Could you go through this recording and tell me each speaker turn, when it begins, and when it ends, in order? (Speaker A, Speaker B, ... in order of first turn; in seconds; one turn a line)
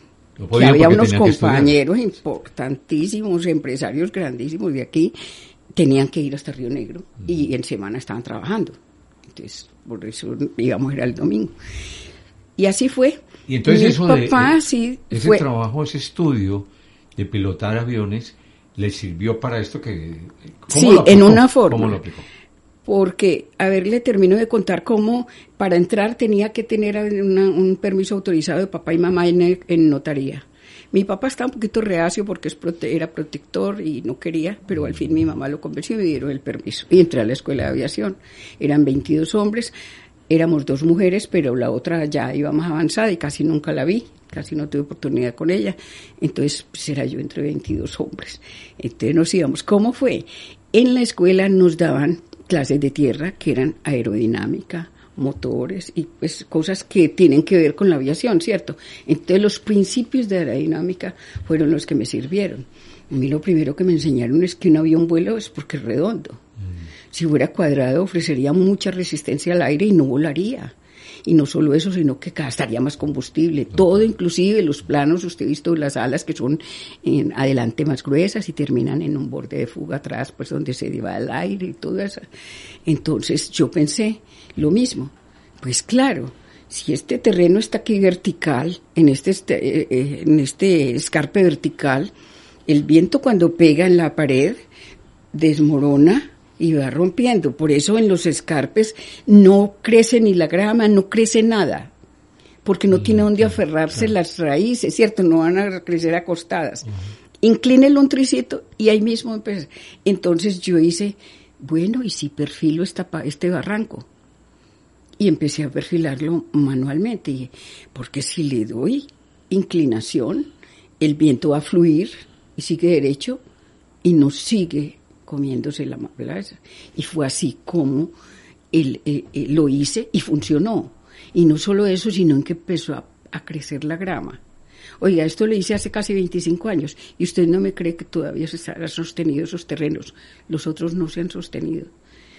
Speaker A: 0.4-1.7
Speaker B: 0.5-5.1
Speaker B: 5.7-8.8
Speaker B: 9.3-11.5
Speaker B: 12.6-15.4
Speaker A: 13.5-14.6
Speaker A: 15.1-22.2
Speaker B: 20.7-22.0
Speaker B: 22.8-39.7
Speaker B: 40.3-66.4
Speaker B: 67.1-82.2
Speaker B: 82.8-92.1
Speaker B: 92.7-94.6
Speaker B: 95.3-101.9
Speaker B: 102.6-106.9
Speaker A: 103.0-103.5
Speaker B: 107.4-114.1
Speaker B: 115.2-123.4
Speaker B: 124.0-128.1
Speaker B: 128.7-134.4
Speaker B: 135.0-141.9